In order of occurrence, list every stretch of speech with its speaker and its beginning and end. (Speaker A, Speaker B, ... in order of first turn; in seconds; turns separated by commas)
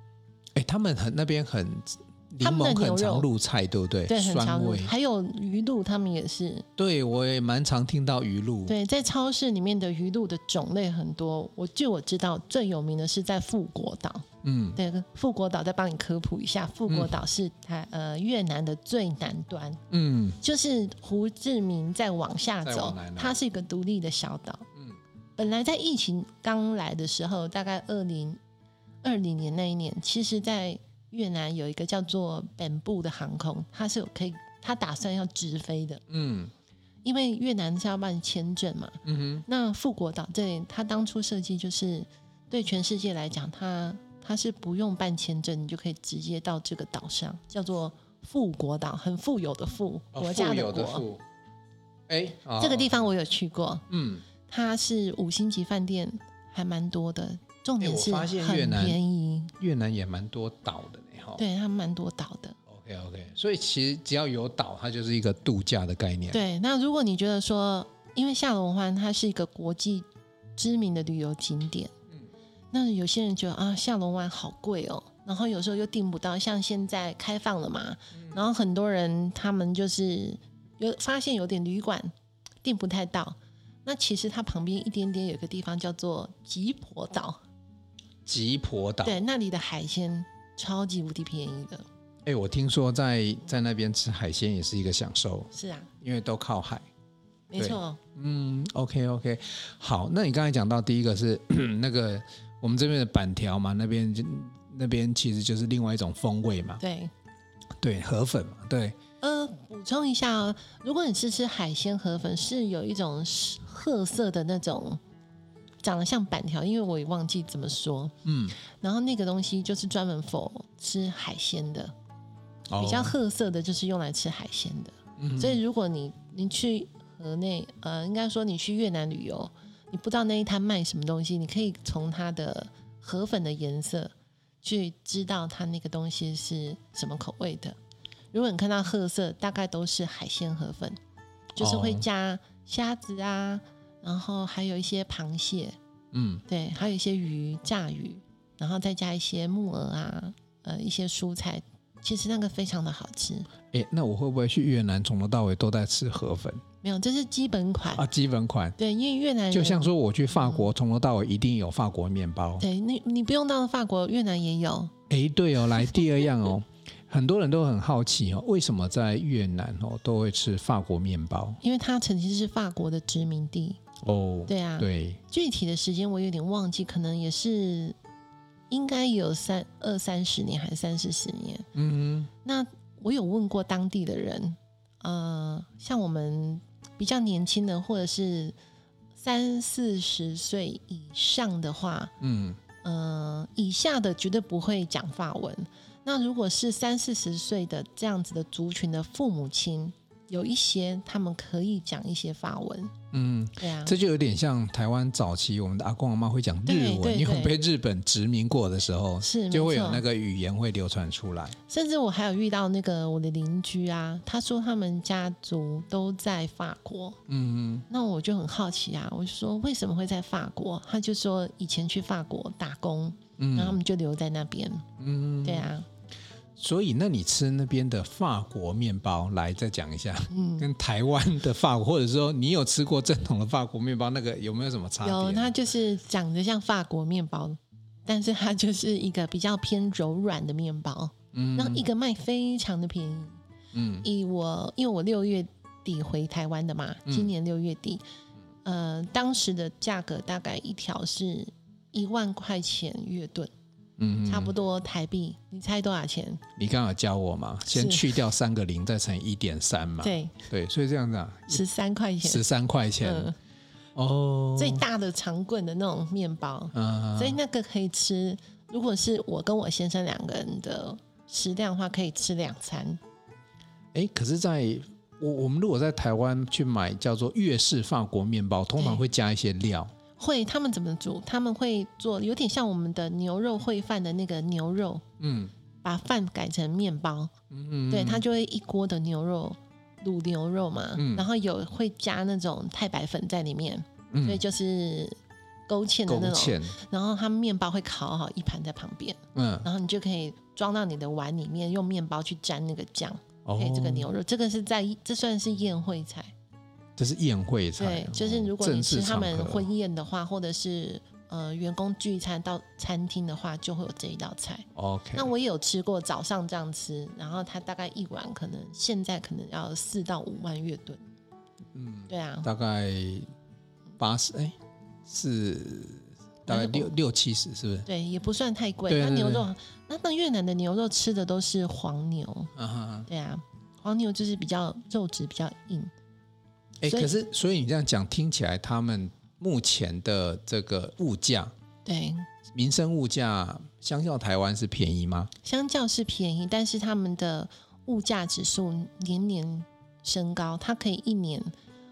Speaker A: 0.5-4.9, Speaker B: 2.4-3.3, Speaker B: 4.1-6.7, Speaker A: 6.8-8.7, Speaker B: 8.7-19.8, Speaker A: 14.4-14.8, Speaker A: 16.9-17.2, Speaker A: 19.9-20.4, Speaker B: 20.4-24.6, Speaker A: 22.6-23.4, Speaker B: 25.4-28.4, Speaker B: 29.0-36.0, Speaker A: 36.1-36.5, Speaker B: 37.0-51.0, Speaker A: 39.0-39.4, Speaker A: 50.1-51.2, Speaker A: 52.1-53.0, Speaker B: 52.6-53.9, Speaker A: 53.9-54.2, Speaker B: 54.5-59.5, Speaker A: 57.8-59.0, Speaker A: 59.6-61.4, Speaker B: 61.4-62.6, Speaker A: 62.7-66.4, Speaker B: 66.3-70.0, Speaker B: 70.6-71.9, Speaker B: 72.7-82.1, Speaker B: 82.6-87.4, Speaker A: 88.2-89.2, Speaker B: 89.0-91.8, Speaker A: 92.2-96.9, Speaker B: 95.5-95.9, Speaker B: 97.5-98.0, Speaker A: 97.5-106.8, Speaker B: 106.8-107.1, Speaker A: 107.8-109.0, Speaker B: 109.2-115.0, Speaker B: 115.8-121.9, Speaker A: 118.2-118.5, Speaker A: 122.7-123.1, Speaker B: 122.8-137.8, Speaker A: 125.2-125.6, Speaker B: 138.3-141.0, Speaker B: 141.6-145.8, Speaker A: 141.6-142.0, Speaker A: 146.1-146.4, Speaker B: 146.5-153.5, Speaker A: 153.7-156.6, Speaker B: 156.8-158.0, Speaker A: 157.9-158.8, Speaker B: 158.8-160.7, Speaker A: 159.5-162.6, Speaker B: 162.6-164.9, Speaker A: 165.1-171.6, Speaker B: 171.6-173.8, Speaker A: 174.0-175.2, Speaker B: 174.5-177.9, Speaker B: 178.7-181.7, Speaker A: 181.7-182.3, Speaker B: 182.4-188.5, Speaker B: 189.2-192.1, Speaker A: 192.2-192.6, Speaker B: 192.8-202.9, Speaker A: 203.1-211.6, Speaker B: 203.6-203.9, Speaker B: 206.7-207.6, Speaker B: 209.2-210.0, Speaker B: 211.7-217.2, Speaker A: 217.3-217.8, Speaker B: 217.9-224.8, Speaker A: 223.4-223.8, Speaker A: 225.0-225.7, Speaker B: 225.4-225.9, Speaker A: 226.6-235.5, Speaker B: 230.3-230.7, Speaker B: 235.0-243.4, Speaker A: 241.3-241.8, Speaker A: 243.7-244.1, Speaker B: 244.0-248.0, Speaker A: 247.1-247.3, Speaker B: 248.6-253.5, Speaker A: 254.0-254.5, Speaker B: 254.2-256.4, Speaker A: 256.6-261.6, Speaker B: 257.7-258.2, Speaker B: 260.0-260.4, Speaker B: 261.5-262.4, Speaker A: 262.2-263.3, Speaker B: 263.0-263.3, Speaker A: 263.9-264.8, Speaker B: 264.6-273.0, Speaker A: 266.7-267.4, Speaker A: 273.9-279.9, Speaker B: 278.8-279.0, Speaker B: 280.2-285.0, Speaker A: 285.2-285.5, Speaker B: 285.8-287.3, Speaker A: 287.5-288.2, Speaker B: 287.9-295.2, Speaker A: 290.9-291.2, Speaker A: 294.1-294.4, Speaker B: 295.7-306.3, Speaker A: 296.1-296.8, Speaker A: 299.3-299.7, Speaker A: 303.4-304.1, Speaker A: 307.0-309.7, Speaker B: 307.8-321.0, Speaker A: 314.7-315.3, Speaker A: 321.7-323.3, Speaker B: 322.1-322.5, Speaker A: 324.0-327.9, Speaker B: 326.5-326.9, Speaker B: 327.9-332.5, Speaker A: 328.9-329.5, Speaker A: 332.6-333.1, Speaker B: 333.1-335.9, Speaker A: 336.8-341.5, Speaker B: 336.9-337.2, Speaker B: 341.8-342.3, Speaker A: 342.5-345.3, Speaker B: 345.4-351.5